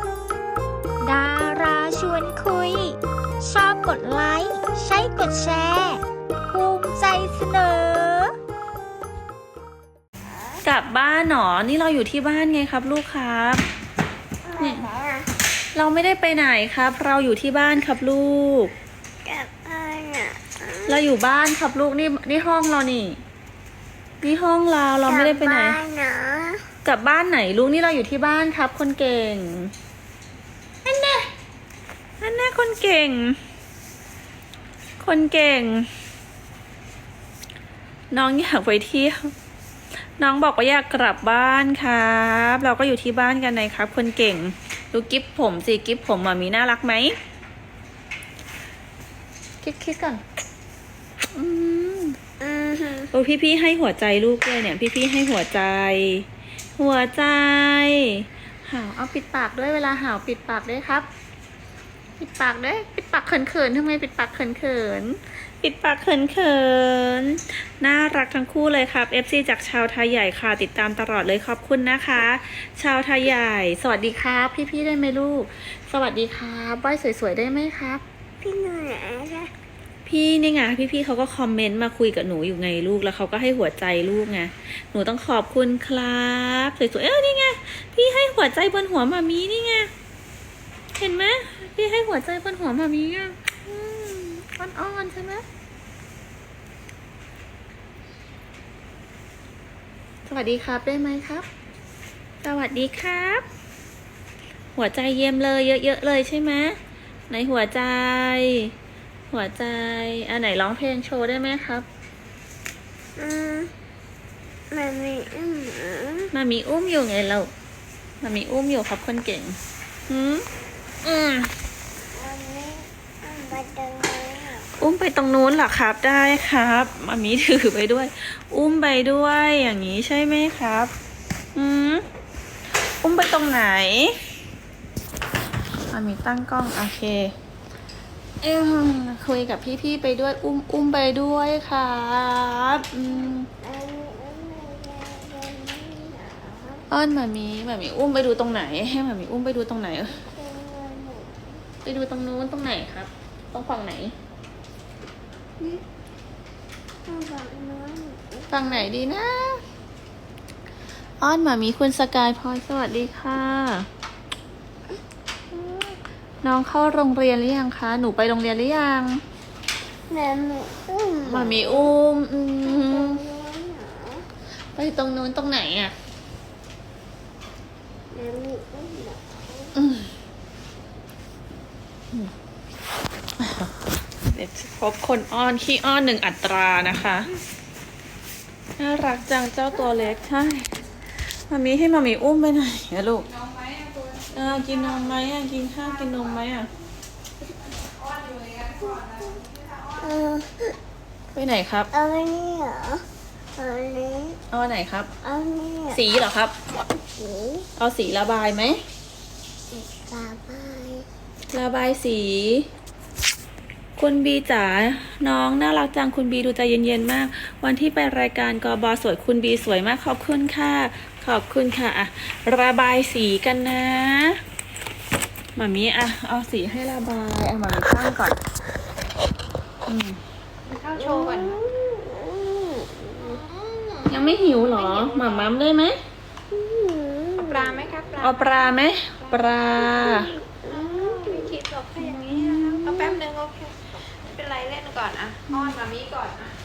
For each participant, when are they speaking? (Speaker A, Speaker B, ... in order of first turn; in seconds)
Speaker A: 1.0-8.3
Speaker B: 10.6-13.6, 14.6-14.9, 15.7-18.7, 20.9-23.2, 24.2-25.8, 26.8-29.7, 30.9-31.3, 32.2-33.4, 35.0-35.9, 38.1-39.3, 40.2-47.1, 49.6-50.2, 51.3-52.2, 53.1-61.1, 62.2-78.0, 80.1-89.9, 91.0-95.5, 100.3-101.5, 102.4-103.5, 104.8-106.8, 107.3-108.7, 109.3-111.9, 116.3-117.5, 118.2-120.5, 121.0-121.5, 124.8-130.9, 131.6-132.1, 133.0-134.2, 135.9-137.3, 138.4-143.5, 146.9-150.2, 151.8-154.1, 158.5-159.6, 161.2-163.9, 165.5-169.2, 171.2-173.2, 174.8-175.9, 179.8-180.1, 183.4-183.7, 184.3-187.3, 188.8-193.3, 194.3-196.7, 201.3-201.9, 204.5-205.1, 205.9-206.5, 207.8-208.8, 211.5-212.7, 214.0-224.4, 225.6-228.4, 229.9-230.2, 234.1-236.0, 238.2-240.3, 242.0-243.0, 245.5-245.8
Speaker C: 14.4-15.3, 19.2-21.1, 25.1-26.6, 52.4-53.1, 78.4-79.5, 113.2-113.7, 114.7-116.3, 122.1-124.7, 143.1-146.9, 150.1-151.6, 157.1-158.9, 170.1-171.9, 172.6-174.2, 178.1-179.8, 198.9-199.4, 200.0-200.8, 201.9-203.1, 203.6-204.4, 205.2-206.0, 207.2-207.7, 209.7-211.1, 231.0-235.5, 236.5-237.9, 239.7-241.6
Speaker D: 193.5-194.1, 198.0-200.0, 230.7-231.6, 237.4-238.7, 240.6-246.6